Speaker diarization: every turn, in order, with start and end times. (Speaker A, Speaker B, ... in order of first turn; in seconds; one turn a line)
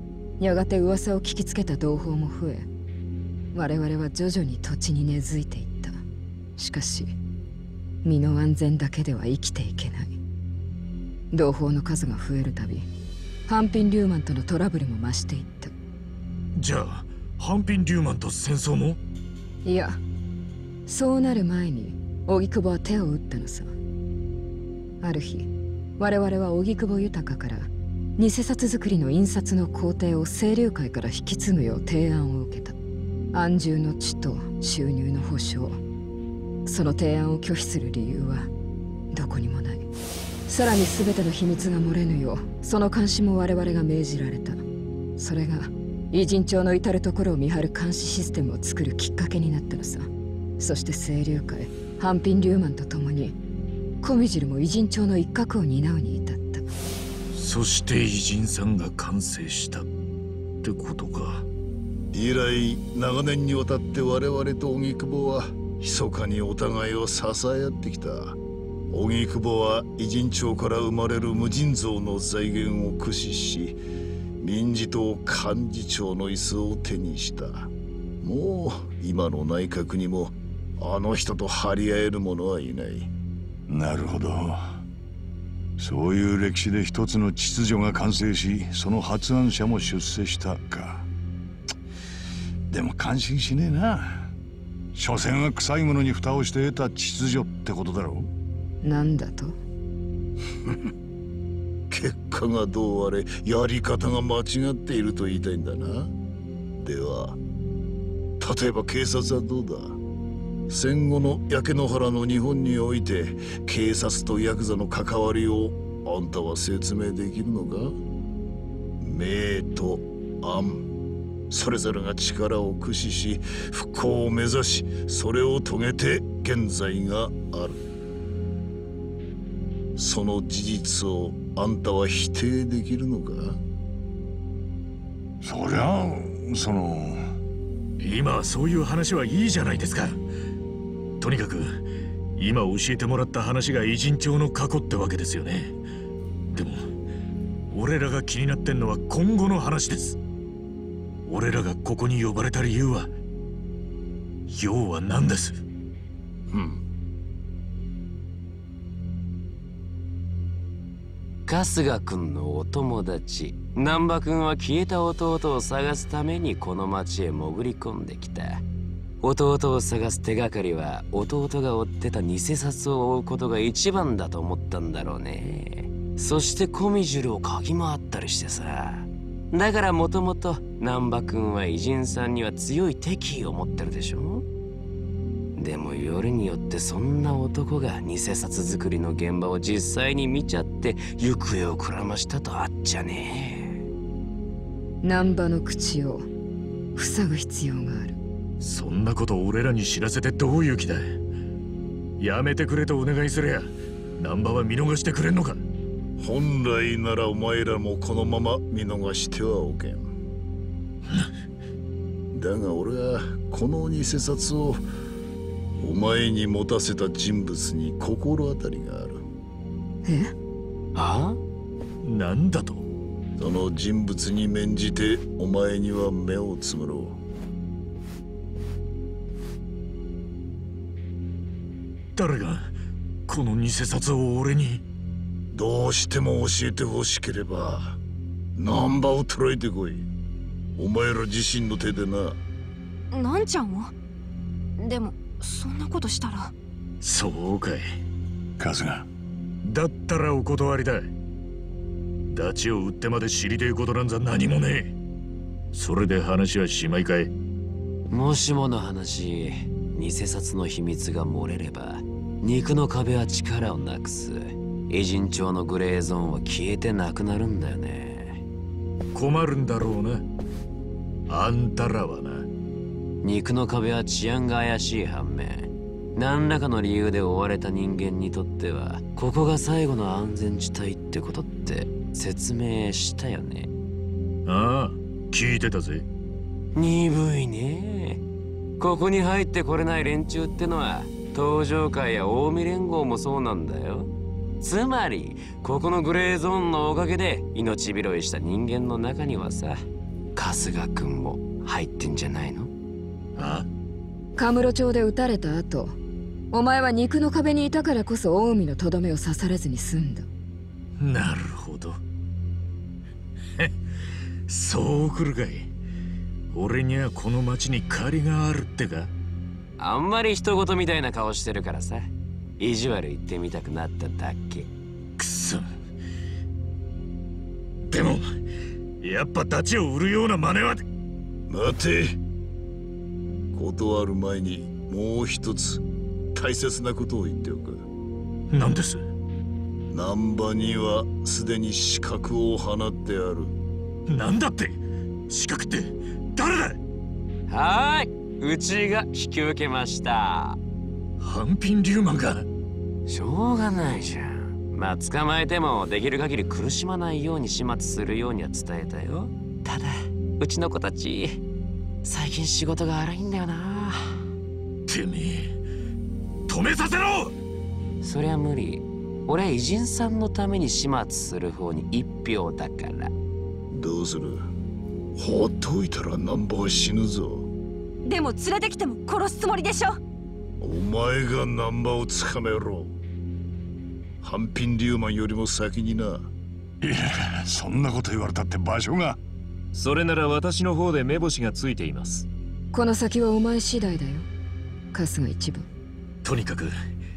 Speaker A: 0.4-2.7
Speaker A: 3.5-6.0
Speaker A: 6.5-7.1
Speaker A: 8.0-10.2
Speaker A: 11.3-12.9
Speaker A: 13.5-15.7
Speaker B: 16.6-19.0
Speaker A: 19.6-20.0
Speaker A: 20.9-23.7
Speaker A: 25.0-32.8
Speaker A: 33.3-35.8
Speaker A: 36.6-38.5
Speaker A: 39.1-39.9
Speaker A: 40.5-44.6
Speaker A: 45.1-53.4
Speaker A: 54.0-56.7
Speaker B: 57.3-59.9
Speaker B: 60.6-61.5
Speaker C: 62.1-68.4
Speaker C: 68.9-73.8
Speaker C: 74.4-83.1
Speaker D: 83.7-84.8
Speaker D: 85.8-91.1
Speaker D: 92.7-94.3
Speaker D: 94.9-98.3
Speaker A: 98.8-99.5
Speaker C: 101.9-106.1
Speaker C: 106.8-107.4
Speaker C: 108.4-110.0
Speaker C: 110.7-118.0
Speaker C: 119.0-120.8
Speaker C: 121.5-127.8
Speaker C: 129.9-133.6
Speaker D: 135.4-137.2
Speaker B: 138.0-140.2
Speaker B: 141.2-141.8
Speaker B: 142.4-145.8
Speaker B: 146.5-146.8
Speaker B: 147.7-150.2
Speaker B: 151.2-153.1
Speaker B: 154.5-155.6
Speaker C: 156.5-156.8
Speaker E: 161.5-168.6
Speaker E: 169.2-184.4
Speaker E: 185.6-193.8
Speaker A: 195.0-196.3
Speaker A: 196.9-198.2
Speaker B: 198.6-201.1
Speaker B: 202.2-205.6
Speaker C: 206.2-210.1
Speaker C: 212.3-214.8
Speaker C: 215.8-219.2
Speaker A: 220.0-220.3
Speaker E: 220.9-221.4
Speaker B: 222.0-222.8
Speaker C: 223.4-227.2
Speaker B: 232.2-232.7
Speaker B: 233.3-234.8
Speaker C: 235.5-238.0
Speaker C: 238.5-240.1
Speaker C: 240.8-242.4
Speaker F: 243.1-243.9
Speaker F: 244.8-246.5
Speaker B: 247.0-247.8
Speaker D: 248.6-249.1
Speaker B: 249.6-251.1
Speaker B: 252.3-254.9
Speaker B: 255.7-257.3
Speaker E: 258.1-268.4
Speaker B: 269.1-270.2
Speaker B: 271.3-272.5
Speaker E: 273.2-283.7
Speaker B: 284.4-286.0
Speaker E: 286.8-288.2
Speaker E: 288.8-294.1
Speaker E: 294.6-299.8
Speaker E: 300.4-302.7
Speaker B: 303.4-303.6
Speaker A: 304.4-305.9
Speaker A: 306.5-310.3
Speaker B: 311.0-312.0
Speaker B: 314.5-315.7
Speaker B: 316.5-319.1
Speaker E: 319.8-324.7
Speaker B: 325.2-325.7
Speaker B: 327.9-328.2
Speaker B: 329.0-330.8
Speaker C: 331.5-332.2
Speaker C: 333.5-335.8
Speaker C: 336.3-337.8
Speaker B: 338.5-339.0
Speaker C: 339.9-343.6
Speaker B: 344.1-346.8
Speaker E: 347.5-350.6
Speaker B: 351.2-352.4
Speaker E: 353.1-361.4
Speaker E: 362.0-364.0
Speaker B: 364.9-365.6
Speaker B: 366.5-367.3
Speaker E: 368.0-373.1
Speaker C: 373.7-374.4
Speaker C: 375.1-377.5
Speaker F: 378.0-380.0
Speaker C: 380.6-383.0
Speaker C: 384.2-386.3
Speaker D: 386.8-389.2
Speaker G: 389.7-392.3
Speaker A: 392.7-394.3
Speaker A: 394.9-395.7
Speaker B: 396.2-396.7